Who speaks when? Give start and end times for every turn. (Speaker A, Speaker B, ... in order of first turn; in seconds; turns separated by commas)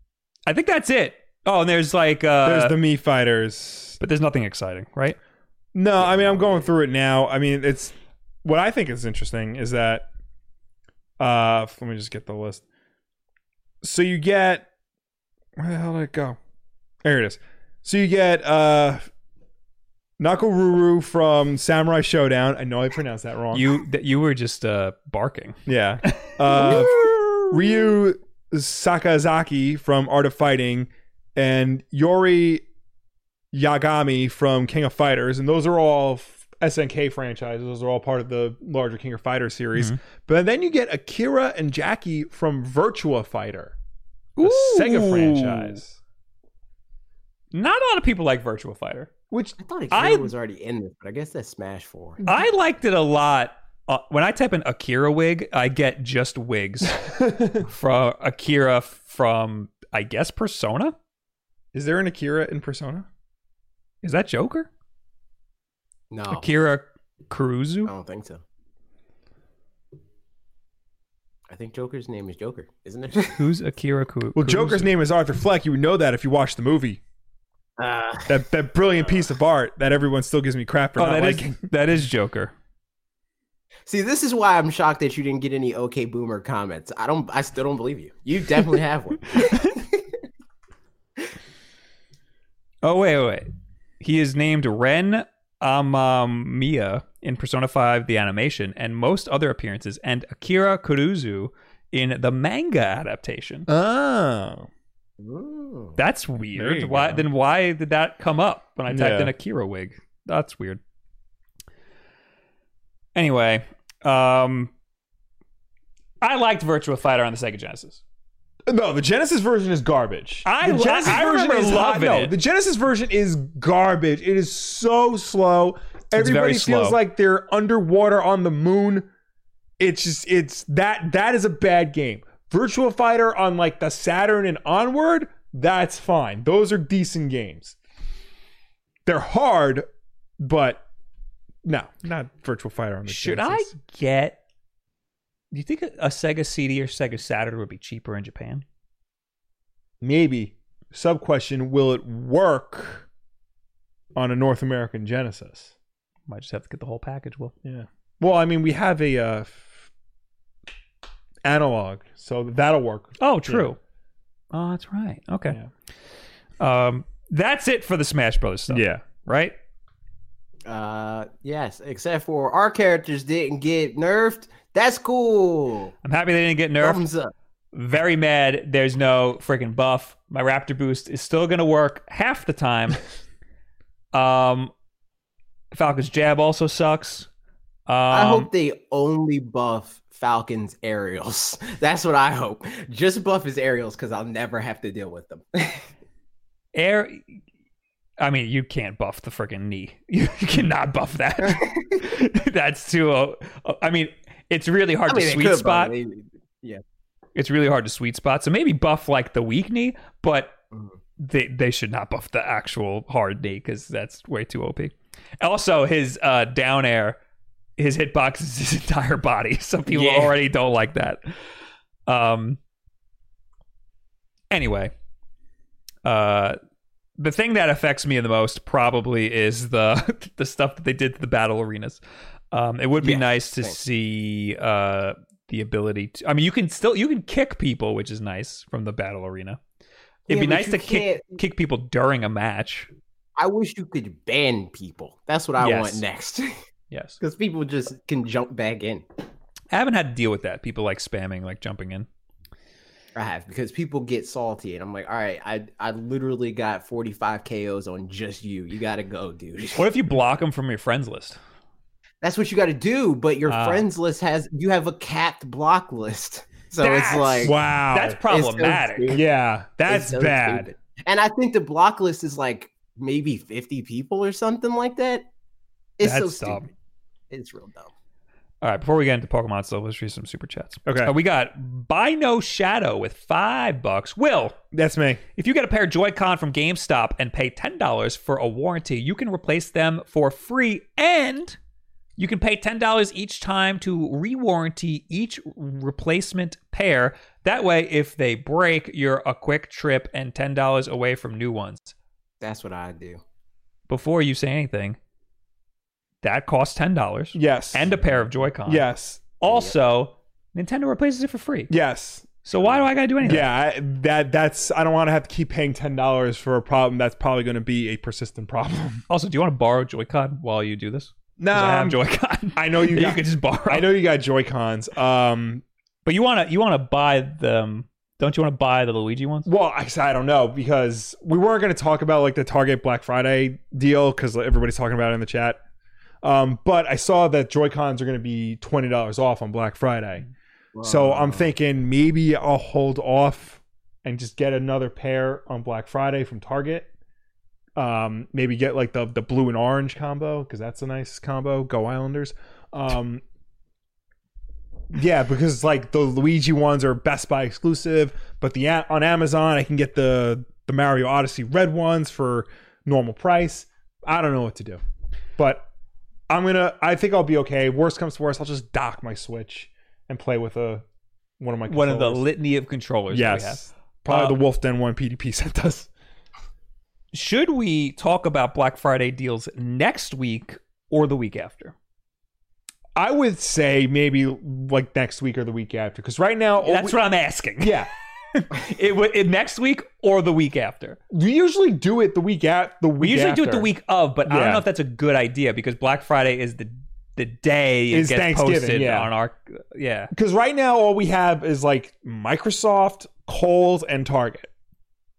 Speaker A: 0.5-2.8, Speaker B: 2.4-4.0, Speaker A: 4.0-5.2, Speaker B: 5.7-10.1, Speaker C: 6.1-6.5, Speaker B: 11.2-12.6, Speaker B: 13.8-14.7, Speaker B: 15.6-16.4, Speaker B: 17.0-19.1, Speaker B: 20.2-23.6, Speaker A: 23.5-27.5, Speaker B: 25.6-32.6, Speaker B: 33.5-43.8, Speaker A: 44.4-45.8, Speaker B: 44.4-46.0, Speaker A: 47.5-49.1, Speaker B: 49.3-49.5, Speaker C: 49.6-52.2, Speaker A: 49.9-50.3, Speaker A: 52.2-57.0, Speaker B: 57.0-57.6, Speaker A: 57.6-60.9, Speaker B: 61.7-63.1, Speaker A: 64.0-64.7, Speaker C: 66.1-66.5, Speaker A: 66.3-67.9, Speaker C: 67.8-68.4, Speaker C: 71.5-73.5, Speaker A: 73.3-74.9, Speaker B: 74.3-77.0, Speaker C: 77.8-78.4, Speaker B: 78.3-81.5, Speaker A: 81.0-82.5, Speaker C: 83.8-90.0, Speaker A: 89.3-89.7, Speaker A: 92.8-93.5, Speaker A: 94.0-103.7, Speaker B: 103.7-104.7, Speaker C: 105.2-106.0, Speaker A: 106.0-110.8, Speaker B: 106.5-107.2, Speaker B: 108.9-109.3, Speaker A: 113.1-114.7, Speaker A: 116.2-118.0, Speaker B: 118.7-129.1, Speaker A: 120.4-122.3, Speaker A: 126.1-127.0, Speaker B: 129.8-137.8, Speaker B: 139.1-139.8, Speaker B: 140.4-140.8, Speaker B: 141.6-143.7, Speaker A: 143.1-144.4, Speaker A: 145.5-148.6, Speaker B: 150.0-153.1, Speaker B: 154.1-155.7, Speaker A: 156.3-157.5, Speaker B: 157.6-159.8, Speaker B: 161.4-163.7, Speaker A: 163.2-163.8, Speaker A: 164.5-165.6, Speaker A: 166.6-169.5, Speaker B: 168.7-169.0, Speaker C: 170.7-175.9, Speaker A: 176.0-177.0, Speaker C: 176.8-177.3, Speaker A: 177.7-183.0, Speaker A: 184.1-184.7, Speaker A: 185.7-187.3, Speaker A: 187.9-188.5, Speaker C: 188.1-195.9, Speaker A: 196.7-197.4, Speaker A: 198.2-205.9, Speaker C: 201.5-202.0, Speaker C: 205.1-206.8, Speaker A: 207.3-210.6, Speaker A: 211.2-217.2, Speaker A: 217.8-221.2, Speaker C: 219.9-220.3, Speaker A: 222.1-222.6, Speaker A: 224.5-224.9, Speaker A: 226.0-226.6, Speaker A: 227.2-232.0, Speaker A: 232.5-239.6, Speaker C: 233.0-233.8, Speaker C: 240.3-241.4, Speaker A: 240.3-242.9, Speaker C: 243.4-246.5, Speaker A: 245.6-246.0, Speaker A: 246.9-247.2, Speaker C: 247.2-249.0, Speaker A: 249.7-252.1, Speaker C: 253.1-259.9, Speaker A: 259.8-261.4, Speaker C: 262.2-267.6, Speaker A: 263.5-263.8, Speaker A: 266.8-269.2, Speaker B: 267.4-268.2, Speaker C: 268.2-269.2, Speaker B: 269.1-270.7, Speaker C: 269.8-275.2, Speaker C: 276.0-276.7, Speaker A: 276.0-276.7, Speaker C: 277.3-277.9, Speaker A: 278.6-284.6, Speaker B: 280.9-281.1, Speaker B: 284.7-285.2, Speaker A: 285.4-291.6, Speaker A: 292.2-301.9, Speaker C: 302.4-303.2, Speaker A: 303.9-305.0, Speaker A: 306.2-308.9, Speaker B: 307.3-307.9, Speaker B: 308.6-309.2, Speaker A: 309.4-311.7, Speaker C: 309.5-309.7, Speaker B: 311.7-312.4, Speaker A: 312.4-313.5, Speaker B: 313.2-319.0, Speaker A: 319.1-323.9, Speaker B: 321.4-322.0, Speaker B: 322.5-325.6, Speaker A: 326.0-329.5, Speaker B: 329.4-335.6, Speaker B: 336.2-340.2, Speaker C: 340.7-341.5, Speaker B: 340.8-346.9, Speaker B: 347.8-353.2, Speaker B: 354.9-364.8, Speaker B: 365.4-365.6, Speaker B: 366.3-370.8, Speaker B: 371.4-372.2, Speaker A: 371.7-374.4, Speaker B: 373.1-375.9, Speaker A: 377.1-381.7, Speaker B: 382.9-387.0, Speaker A: 386.6-391.0, Speaker B: 387.6-387.9, Speaker B: 391.1-393.7, Speaker A: 393.0-400.1, Speaker B: 394.2-394.6, Speaker B: 397.9-399.1, Speaker B: 400.1-404.5